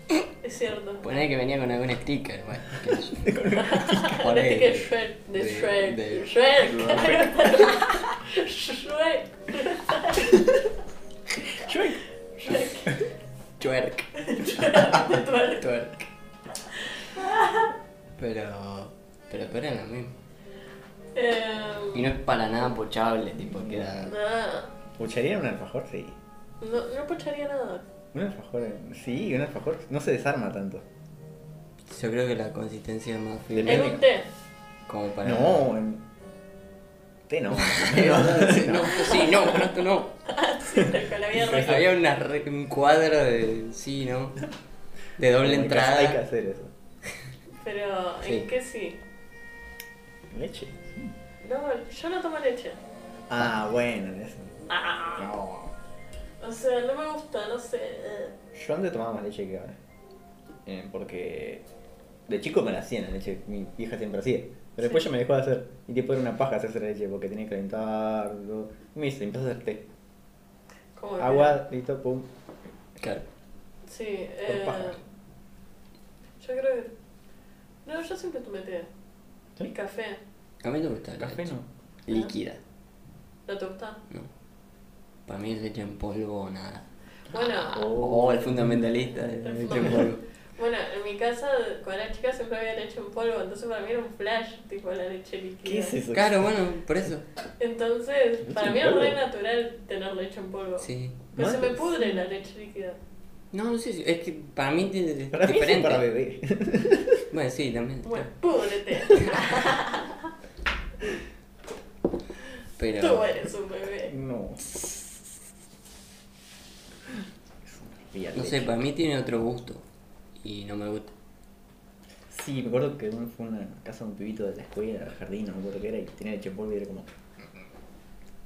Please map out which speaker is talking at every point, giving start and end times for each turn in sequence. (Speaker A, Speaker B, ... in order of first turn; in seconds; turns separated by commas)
Speaker A: 0.4-1.1, Speaker B: 1.0-7.8, Speaker C: 3.0-4.2, Speaker A: 3.5-10.5, Speaker C: 11.5-13.0, Speaker A: 12.4-13.0, Speaker B: 13.6-16.1, Speaker A: 14.2-15.7, Speaker A: 16.9-17.7, Speaker B: 18.2-20.1, Speaker A: 21.1-22.1, Speaker B: 21.9-24.1, Speaker C: 23.5-24.1, Speaker A: 24.1-24.7, Speaker C: 25.0-26.1, Speaker A: 26.6-27.8, Speaker C: 28.1-30.9, Speaker B: 31.9-34.0, Speaker C: 33.5-34.0, Speaker A: 33.6-34.3, Speaker B: 34.9-35.7, Speaker C: 35.2-36.0, Speaker C: 37.3-39.3, Speaker B: 37.5-40.1, Speaker A: 39.0-39.5, Speaker A: 40.2-41.8, Speaker C: 41.3-41.8, Speaker B: 41.4-44.4, Speaker B: 45.2-46.2, Speaker C: 45.4-46.7, Speaker A: 47.6-49.0, Speaker C: 50.3-51.1, Speaker A: 51.4-52.8, Speaker C: 53.3-54.5, Speaker A: 54.7-55.4, Speaker C: 55.1-55.7, Speaker A: 56.4-58.4, Speaker C: 58.5-59.8, Speaker C: 60.6-61.6, Speaker C: 62.3-69.8, Speaker A: 71.0-71.6, Speaker C: 71.2-72.3, Speaker B: 73.0-73.2, Speaker A: 73.9-75.0, Speaker C: 74.5-75.0, Speaker A: 76.4-76.9, Speaker A: 77.8-78.9, Speaker A: 79.6-80.2, Speaker B: 80.6-81.5, Speaker C: 81.2-81.7, Speaker B: 82.0-82.6, Speaker A: 83.5-84.0, Speaker B: 85.3-90.2, Speaker A: 87.3-87.9, Speaker C: 87.7-90.1, Speaker A: 89.5-96.0, Speaker C: 95.6-96.5, Speaker B: 96.1-97.2, Speaker A: 97.6-103.0, Speaker C: 98.4-99.2, Speaker B: 100.8-101.2, Speaker C: 101.3-102.0, Speaker B: 103.5-106.0, Speaker C: 105.3-107.2, Speaker B: 107.3-108.3, Speaker A: 108.0-110.3, Speaker B: 112.8-113.3, Speaker A: 113.0-114.1, Speaker C: 114.1-115.0, Speaker C: 117.1-118.7, Speaker B: 118.3-119.8, Speaker B: 120.4-121.1, Speaker C: 122.3-127.1